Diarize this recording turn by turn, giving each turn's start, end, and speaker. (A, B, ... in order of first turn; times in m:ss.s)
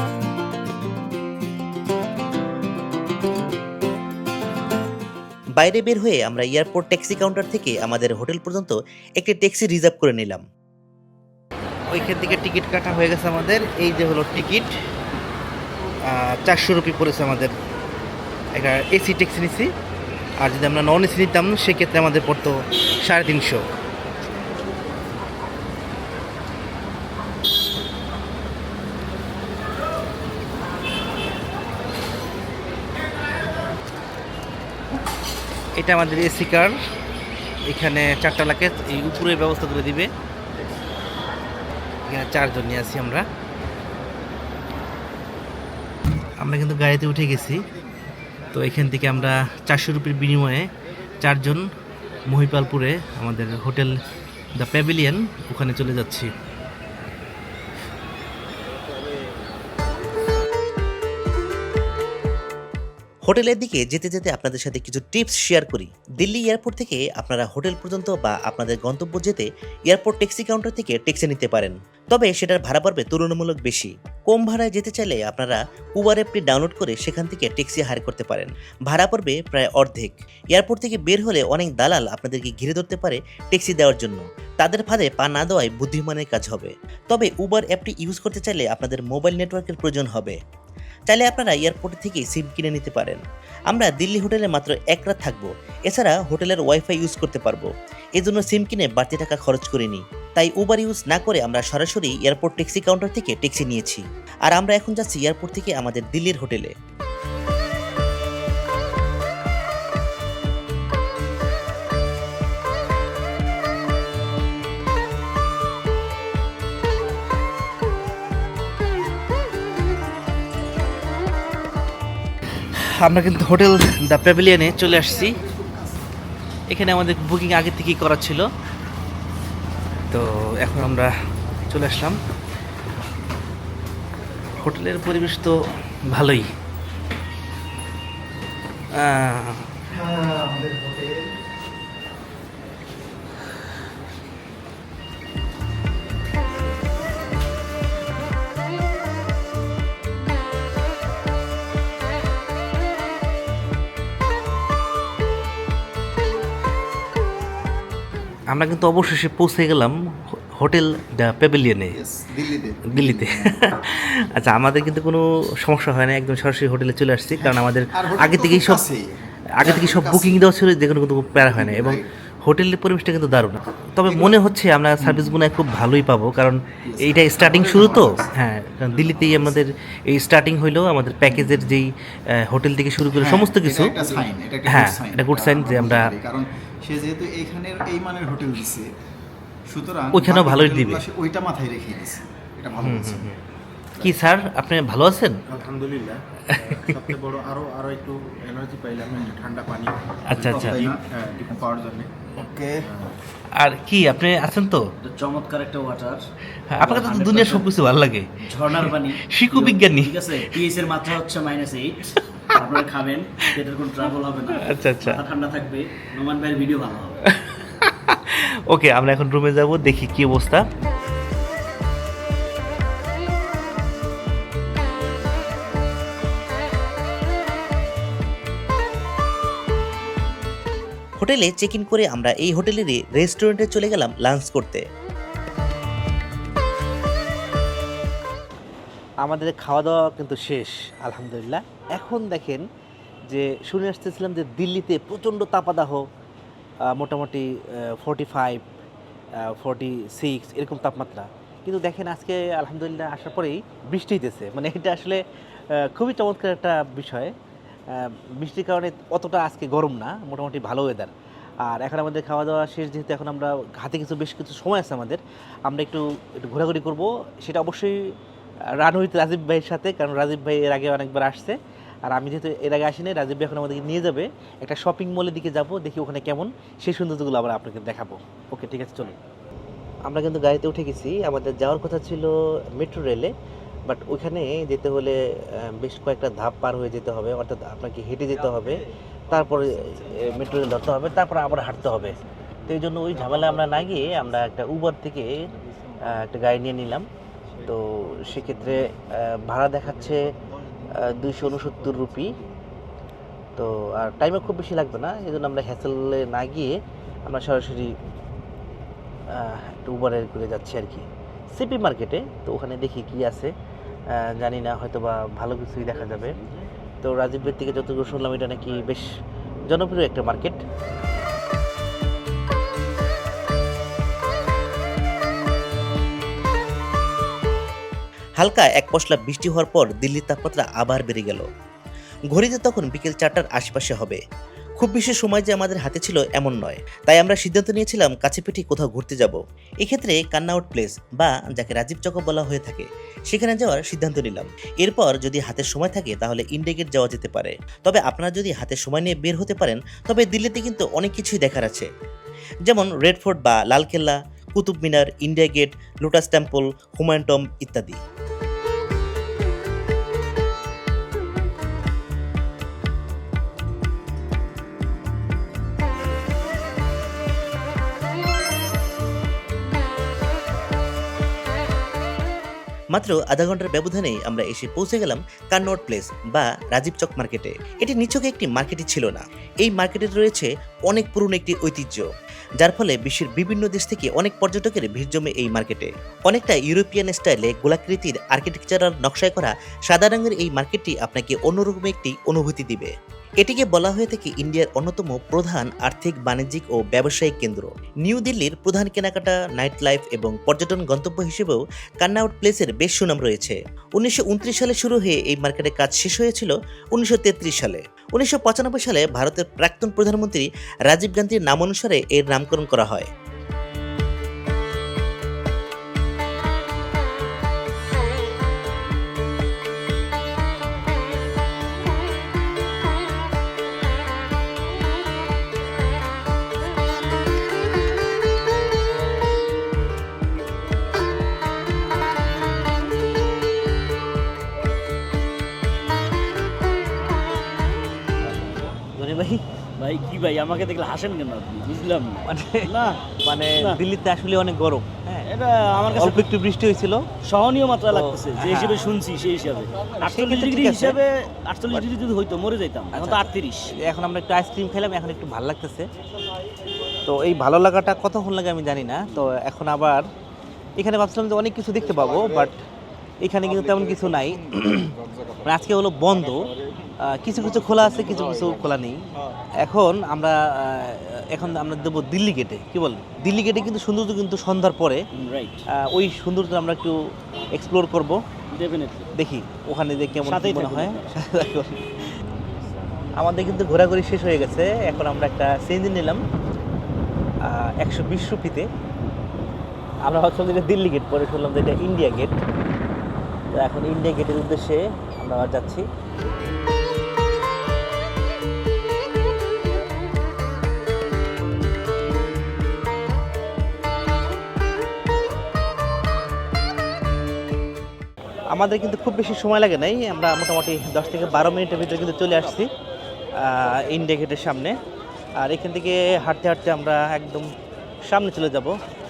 0:05.6-0:10.4 A
0:11.9-0:14.8 B
0:16.0-0:17.5 B
0:18.5-0:19.7 B
0:20.4-0:23.7 B
0:35.8-0:36.8 B
0:37.7-0:40.1 B
0:42.1-0:43.3 B
0:46.4-0:47.6 B
0:48.5-0:51.7 B
0:52.3-0:54.0 B
0:54.6-0:56.3 B
1:03.3-1:30.4 A
1:31.1-1:46.7 A
2:02.8-2:05.4 B
2:04.6-2:06.0 C
2:06.7-2:08.5 B
2:10.1-2:11.1 B
2:11.7-2:12.2 B
2:14.6-2:16.5 B
2:18.9-2:20.0 B
2:38.5-2:42.0 B
2:41.9-2:43.7 C
2:42.9-2:48.8 B
2:47.4-2:50.4 C
2:49.6-3:06.1 B
2:51.4-2:52.1 C
2:54.1-2:54.4 C
2:55.0-2:55.3 C
2:56.8-2:58.3 C
2:58.9-2:59.6 C
3:03.2-3:08.9 C
3:09.7-3:13.4 C
3:10.1-3:11.0 B
3:12.8-3:13.4 B
3:14.0-3:15.4 B
3:15.5-3:22.3 D
3:16.7-3:17.0 B
3:20.3-3:20.8 B
3:20.4-3:21.0 C
3:22.3-3:22.8 C
3:23.5-3:24.9 B
3:25.0-3:26.2 E
3:26.7-3:30.6 B
3:26.8-3:27.7 E
3:28.4-3:37.2 E
3:34.6-3:35.2 B
3:37.2-3:40.6 B
3:51.2-3:54.8 A
3:59.2-4:02.6 B
4:03.3-4:06.1 B
4:06.9-4:08.6 B
4:09.4-4:17.3 B
4:17.9-4:21.1 B
4:21.6-4:28.0 B
4:28.8-4:39.2 B
4:40.0-4:43.3 B
4:43.9-4:55.4 B
4:56.0-4:57.1 B
4:57.6-5:00.2 B
5:00.8-5:02.4 D
5:00.9-5:02.3 B
5:03.6-5:07.9 B
5:09.3-5:13.5 B
5:14.1-5:16.4 B
5:15.9-5:16.7 E
5:17.0-5:19.1 B
5:19.7-5:20.6 B
5:28.4-5:31.5 A
5:32.3-5:34.2 A
5:34.8-5:51.9 A
5:52.6-5:58.0 A
6:12.9-6:22.1 A
6:22.6-6:53.1 A
7:18.3-7:18.6 E
7:19.0-7:19.4 B
7:19.8-7:23.8 E
7:22.2-7:22.7 B
7:23.2-7:27.1 B
7:25.2-7:26.3 E
7:27.2-7:33.7 E
7:27.9-7:28.9 B
7:30.0-7:31.0 B
7:32.9-7:35.9 B
7:37.1-7:40.1 B
7:40.8-7:42.6 B
7:41.8-7:42.5 C
7:43.2-7:44.9 B
7:43.4-7:48.6 C
7:45.4-7:46.5 B
7:47.0-7:49.0 B
7:49.6-7:55.0 B
7:55.1-7:55.6 E
7:55.7-7:57.0 B
7:57.5-7:58.2 B
7:58.5-7:59.1 E
7:59.1-8:01.8 B
8:00.2-8:01.2 E
8:02.3-8:03.1 E
8:03.2-8:06.2 B
8:07.4-8:08.7 B
8:10.0-8:12.4 B
8:13.5-8:15.9 B
8:28.5-8:32.7 B
8:33.4-8:34.8 B
8:35.4-8:37.5 B
8:38.1-8:38.8 B